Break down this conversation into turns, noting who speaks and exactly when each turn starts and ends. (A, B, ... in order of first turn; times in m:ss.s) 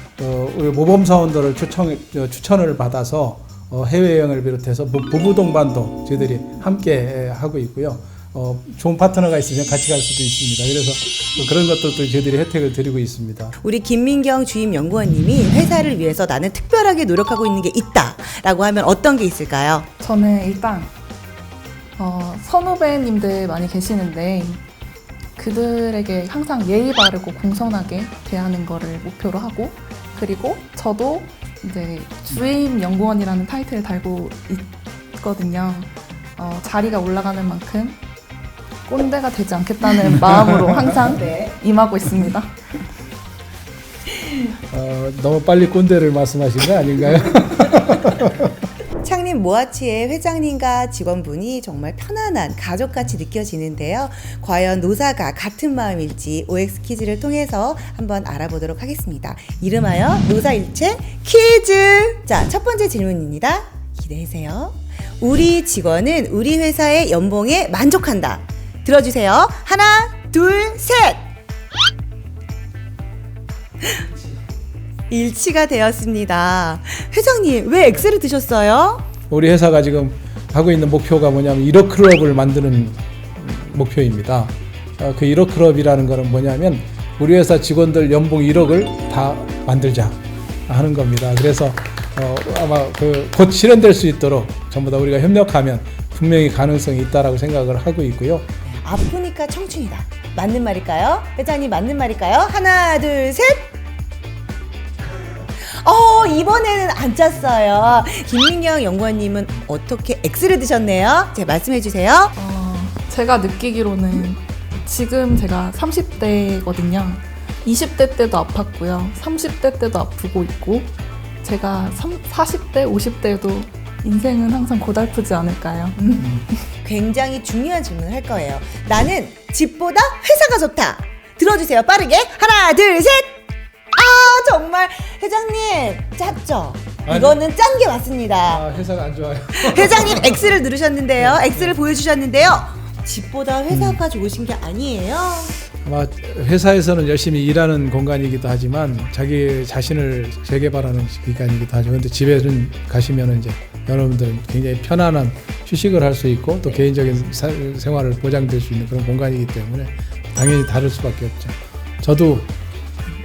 0:00.2-0:13.6 A
0:13.6-0:19.9 B
0:20.0-0:20.9 C
0:22.0-0:24.6 C
0:25.4-0:38.0 C
0:38.8-0:42.6 C
0:40.2-0:40.8 A
0:41.2-0:41.4 B
0:44.7-0:48.5 A
0:49.0-1:11.3 B
1:15.1-1:19.1 B
1:19.3-1:38.5 A
1:38.6-1:43.7 B
1:45.6-1:52.3 B
1:52.4-2:06.6 C
2:06.8-2:13.4 B
2:13.9-2:18.6 B
2:17.0-2:17.4 A
2:18.4-2:20.6 A
2:19.5-2:25.6 B
2:21.2-2:21.8 A
2:23.7-2:24.0 A
2:25.8-2:42.5 A